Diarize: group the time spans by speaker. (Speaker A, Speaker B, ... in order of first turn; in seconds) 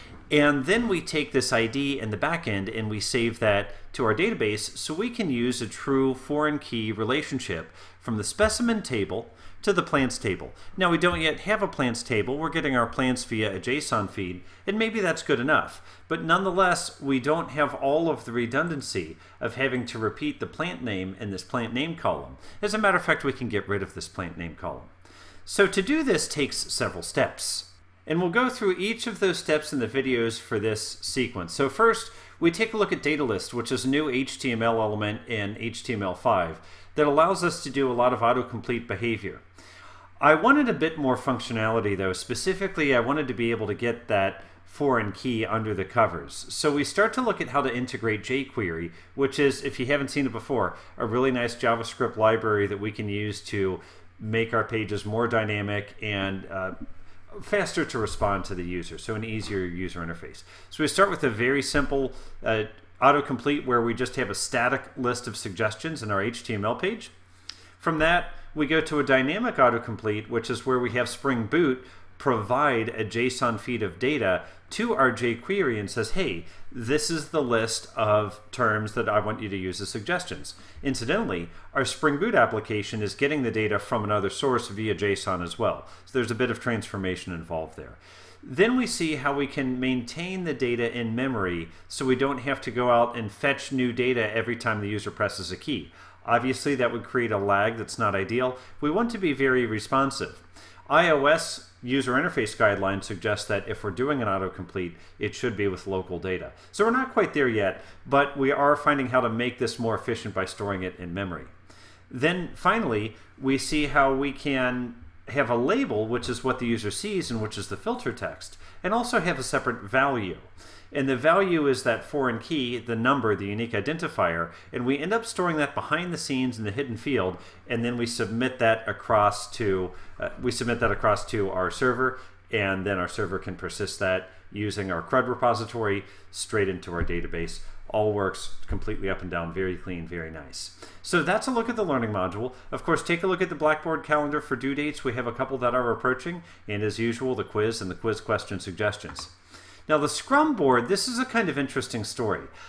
Speaker A: 0.3-24.9, 25.4-39.4, 40.2-56.8, 57.3-67.1, 67.8-111.5, 112.1-149.3, 149.9-152.5